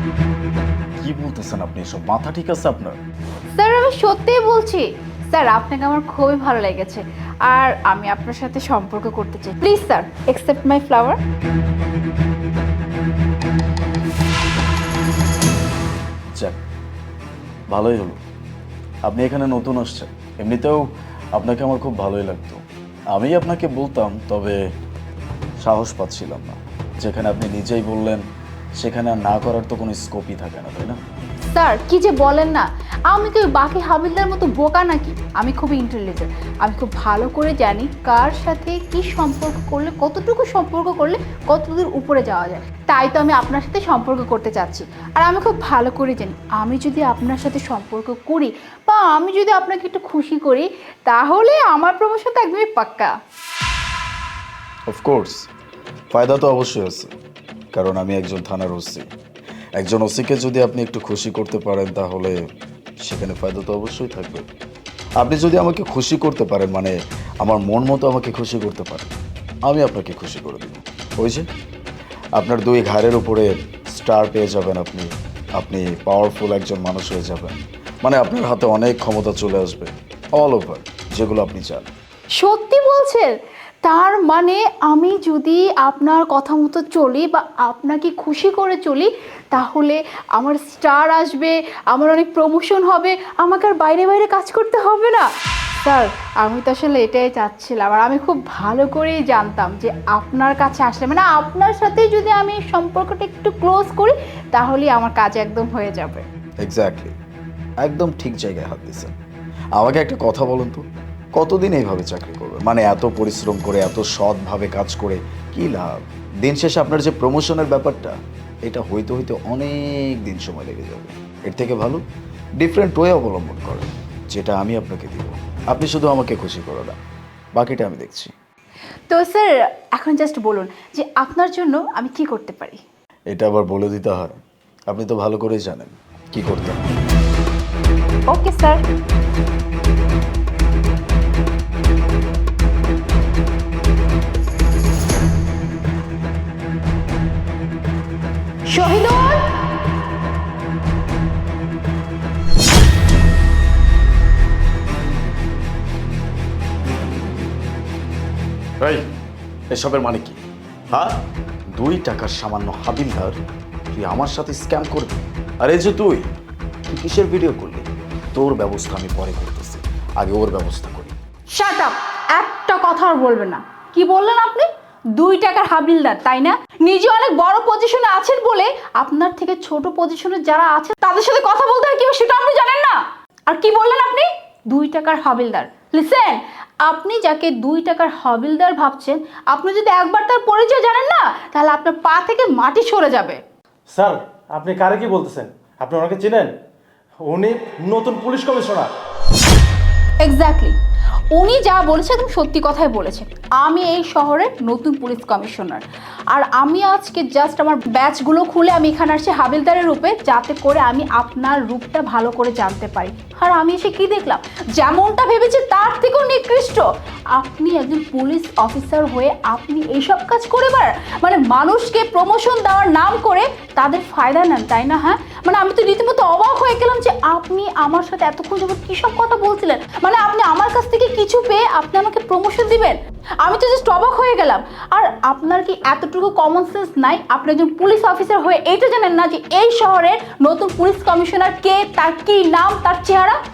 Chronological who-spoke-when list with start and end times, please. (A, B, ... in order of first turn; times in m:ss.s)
0:01.0-0:03.0 A
0:03.6-0:11.2 B
0:17.7-0:18.2 A
0:19.1-0:22.6 A
0:23.1-0:24.6 A
0:25.6-0:28.2 A
0:28.8-0:31.0 A
0:31.5-0:53.1 B
0:54.9-0:55.4 A
0:56.1-0:57.1 A
0:57.7-0:59.1 A
0:59.8-1:02.4 A
1:03.0-1:04.4 A
1:05.2-1:09.1 A
1:09.6-1:11.5 A
1:12.4-1:21.9 A
1:22.4-1:35.3 B
1:35.8-1:46.2 B
1:46.6-1:47.1 A
1:47.8-1:49.1 A
1:49.8-1:50.8 A
1:51.4-2:02.0 A
2:02.6-2:07.0 A
2:07.6-2:08.3 A
2:09.1-2:12.8 B
2:13.3-2:14.4 A
2:14.9-2:16.9 A
2:18.3-2:18.8 B
2:28.7-2:29.5 B
2:39.7-2:40.4 A
2:40.9-2:41.2 A
2:41.7-2:43.4 A
2:43.9-2:46.3 A
2:46.9-2:51.1 A
2:51.5-3:13.4 B
3:13.9-3:16.5 C
3:17.2-3:18.9 C
3:20.2-3:20.8 B
3:21.3-4:03.4 B